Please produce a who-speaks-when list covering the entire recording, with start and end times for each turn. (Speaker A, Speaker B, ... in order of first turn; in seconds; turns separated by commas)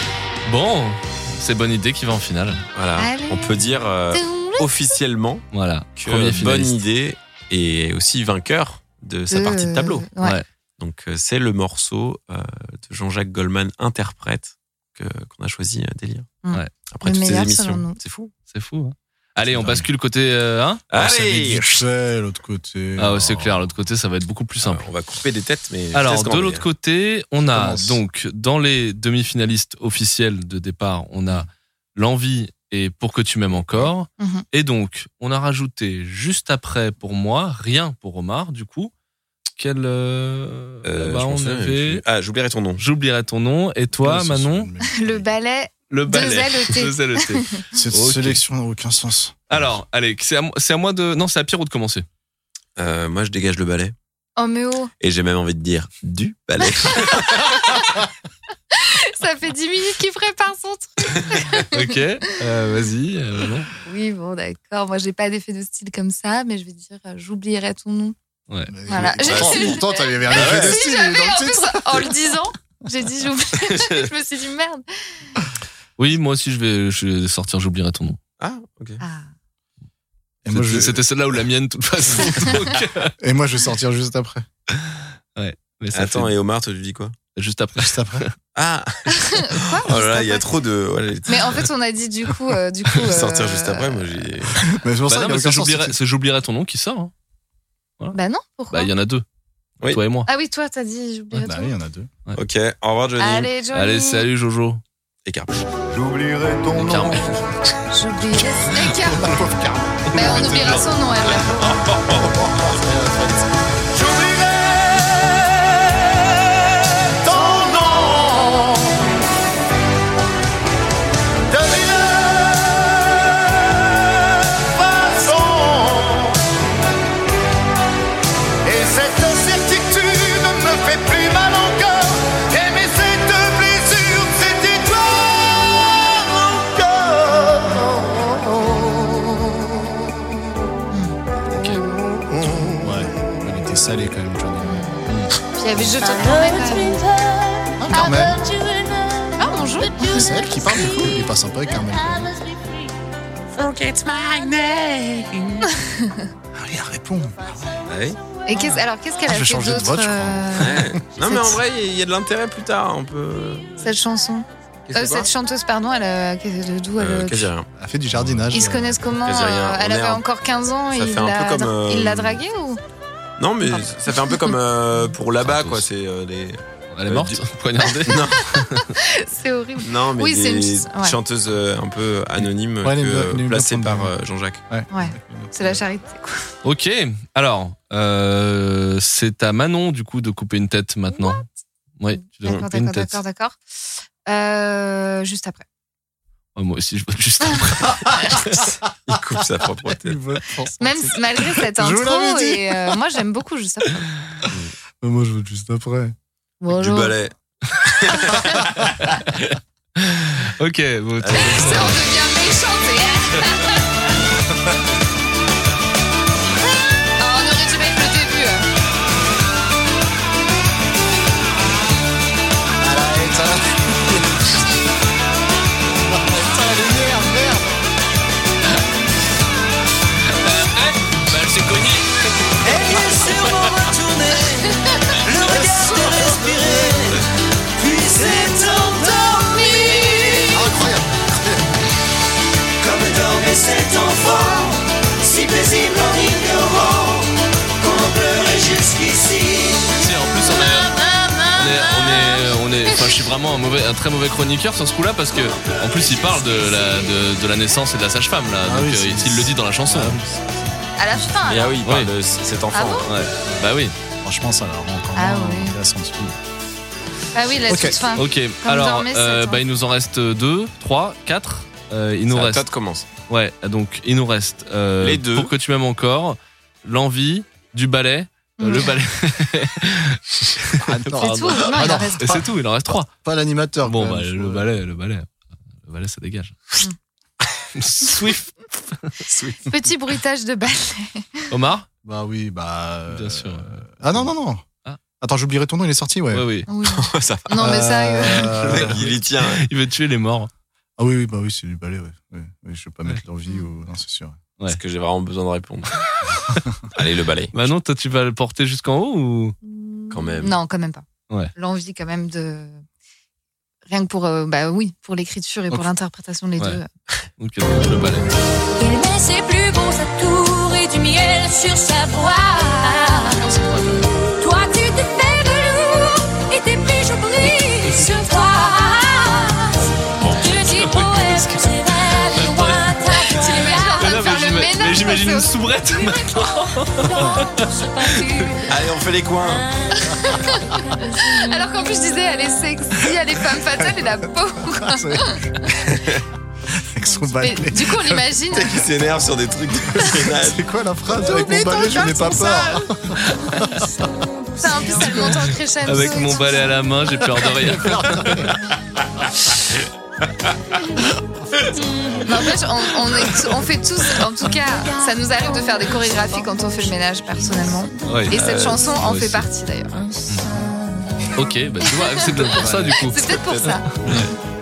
Speaker A: 0.5-2.6, Speaker B: 2.7-10.1, Speaker C: 3.0-3.6, Speaker C: 4.1-4.7, Speaker A: 5.5-6.8, Speaker C: 9.3-10.4, Speaker A: 10.2-10.4, Speaker B: 10.8-16.3, Speaker C: 16.4-18.0, Speaker B: 16.9-18.3, Speaker A: 18.5-20.8, Speaker D: 19.5-19.9, Speaker B: 20.9-21.8, Speaker D: 20.9-23.7, Speaker A: 23.0-24.9, Speaker B: 24.6-26.7, Speaker A: 25.9-38.9, Speaker D: 27.5-28.0, Speaker B: 33.5-33.9, Speaker C: 34.2-34.4, Speaker A: 39.6-42.0, Speaker B: 40.8-42.8, Speaker A: 42.8-44.7, Speaker D: 44.0-45.3, Speaker C: 44.9-47.6, Speaker A: 45.9-48.4, Speaker D: 47.7-49.7, Speaker A: 49.5-52.0, Speaker B: 52.8-53.9, Speaker C: 54.4-54.9, Speaker B: 55.0-57.8, Speaker C: 56.9-57.9, Speaker C: 58.7-62.0, Speaker A: 61.7-63.7, Speaker C: 63.8-68.1, Speaker A: 68.5-68.7, Speaker D: 68.7-72.1, Speaker C: 68.9-74.8, Speaker B: 69.0-70.8, Speaker B: 73.7-74.0, Speaker A: 76.0-78.2, Speaker B: 78.4-79.0, Speaker C: 79.0-79.3, Speaker D: 80.4-81.0, Speaker A: 80.5-83.1, Speaker D: 83.2-84.5, Speaker A: 84.8-86.3, Speaker B: 85.9-87.2, Speaker A: 87.3-88.3, Speaker D: 87.7-88.2, Speaker B: 88.5-91.7, Speaker C: 89.1-90.5, Speaker C: 91.3-94.2, Speaker B: 93.0-94.7, Speaker D: 94.7-96.0, Speaker A: 95.1-97.1, Speaker C: 98.1-98.9, Speaker A: 98.7-99.2, Speaker A: 99.8-100.3, Speaker C: 100.2-101.7, Speaker D: 101.3-102.1, Speaker B: 102.3-103.5, Speaker C: 103.2-104.3, Speaker A: 103.7-104.8, Speaker B: 105.2-105.7, Speaker E: 105.9-106.8, Speaker D: 106.7-107.4, Speaker A: 106.7-107.4, Speaker C: 107.9-109.4, Speaker D: 108.8-110.5, Speaker A: 110.1-110.9, Speaker C: 110.1-111.7, Speaker B: 111.3-112.7, Speaker D: 112.6-113.4, Speaker E: 113.9-115.7, Speaker E: 117.2-119.0, Speaker E: 121.5-126.4, Speaker E: 128.6-138.8, Speaker C: 140.9-141.2, Speaker A: 141.5-141.8, Speaker D: 142.8-145.2, Speaker C: 144.6-145.0, Speaker C: 145.5-147.0, Speaker F: 145.9-152.9, Speaker D: 147.8-148.4, Speaker C: 149.4-150.3, Speaker D: 150.0-152.3, Speaker B: 153.5-155.6, Speaker C: 155.7-156.2, Speaker D: 156.6-157.8, Speaker B: 157.8-158.2, Speaker C: 158.5-161.6, Speaker D: 158.7-160.9, Speaker B: 160.6-163.8, Speaker C: 163.8-167.5, Speaker B: 164.9-165.3, Speaker B: 167.0-167.7, Speaker D: 167.7-169.1, Speaker A: 168.2-168.4, Speaker C: 168.5-172.8, Speaker B: 169.2-170.2, Speaker B: 170.9-172.4, Speaker B: 173.4-178.6, Speaker C: 174.3-174.5, Speaker A: 175.4-175.8, Speaker A: 176.9-178.8, Speaker C: 178.3-181.2, Speaker B: 179.8-184.6, Speaker D: 182.8-184.1, Speaker D: 184.7-185.8, Speaker C: 184.9-186.5, Speaker A: 186.6-191.4, Speaker A: 192.0-193.2, Speaker C: 192.1-193.6, Speaker C: 194.2-195.6, Speaker A: 196.6-198.7, Speaker B: 199.1-200.2, Speaker D: 199.6-203.0, Speaker C: 200.8-204.1, Speaker D: 205.0-206.1, Speaker C: 206.6-207.2, Speaker B: 206.7-209.5, Speaker A: 210.0-212.0, Speaker B: 211.2-212.0, Speaker C: 211.3-213.8, Speaker C: 217.2-218.7, Speaker D: 222.8-224.5, Speaker D: 226.1-227.7, Speaker A: 230.3-232.5, Speaker G: 232.6-237.2, Speaker C: 234.7-235.2, Speaker D: 235.4-236.3, Speaker G: 237.8-240.6, Speaker F: 239.9-240.5, Speaker D: 240.5-241.7, Speaker G: 242.8-250.0, Speaker A: 249.9-250.9, Speaker A: 251.5-260.2, Speaker D: 258.6-261.2, Speaker C: 261.0-261.8, Speaker B: 261.4-263.1, Speaker A: 261.8-262.1, Speaker C: 262.7-263.1, Speaker A: 263.0-263.9, Speaker D: 264.2-266.4, Speaker C: 265.1-265.8, Speaker C: 267.3-269.6, Speaker D: 267.7-268.0, Speaker A: 268.1-272.6, Speaker B: 272.3-273.1, Speaker A: 273.3-283.1, Speaker B: 275.0-275.5, Speaker C: 278.6-278.9, Speaker D: 280.8-282.5, Speaker C: 281.2-282.4, Speaker D: 283.2-284.6, Speaker A: 283.8-285.3, Speaker A: 285.8-286.6, Speaker A: 287.7-289.1, Speaker B: 289.2-289.7, Speaker C: 289.6-291.5, Speaker A: 291.5-291.9, Speaker D: 292.0-294.6, Speaker A: 293.1-293.8, Speaker D: 295.2-296.5, Speaker A: 296.3-296.7, Speaker C: 296.7-298.6, Speaker B: 296.8-297.6, Speaker D: 297.6-299.1, Speaker B: 298.5-299.6, Speaker A: 298.7-300.5, Speaker D: 301.0-304.4, Speaker B: 304.7-306.0, Speaker B: 306.9-307.5, Speaker A: 307.5-309.6, Speaker C: 309.6-312.8, Speaker B: 310.1-310.6, Speaker C: 313.9-316.9, Speaker A: 317.4-318.3, Speaker F: 318.8-323.6, Speaker F: 324.2-334.4, Speaker B: 330.2-330.6, Speaker A: 330.7-331.5, Speaker A: 332.3-333.5, Speaker C: 333.3-336.5, Speaker A: 334.0-338.5, Speaker F: 337.0-338.9, Speaker B: 338.6-339.7, Speaker F: 339.4-341.9, Speaker C: 340.0-345.7, Speaker D: 343.8-345.7, Speaker B: 345.7-346.2, Speaker D: 346.7-348.4, Speaker C: 347.4-348.9, Speaker B: 348.5-350.6, Speaker D: 350.2-353.8, Speaker C: 351.2-352.9, Speaker F: 353.5-355.6, Speaker C: 354.6-356.6, Speaker A: 355.8-358.6, Speaker D: 357.6-358.6, Speaker F: 361.8-362.2, Speaker C: 362.2-370.0, Speaker F: 364.6-367.7, Speaker A: 368.1-368.4, Speaker B: 368.3-369.4, Speaker A: 369.0-369.4, Speaker A: 371.3-373.3, Speaker C: 371.8-374.2, Speaker B: 372.7-374.2, Speaker A: 374.0-374.3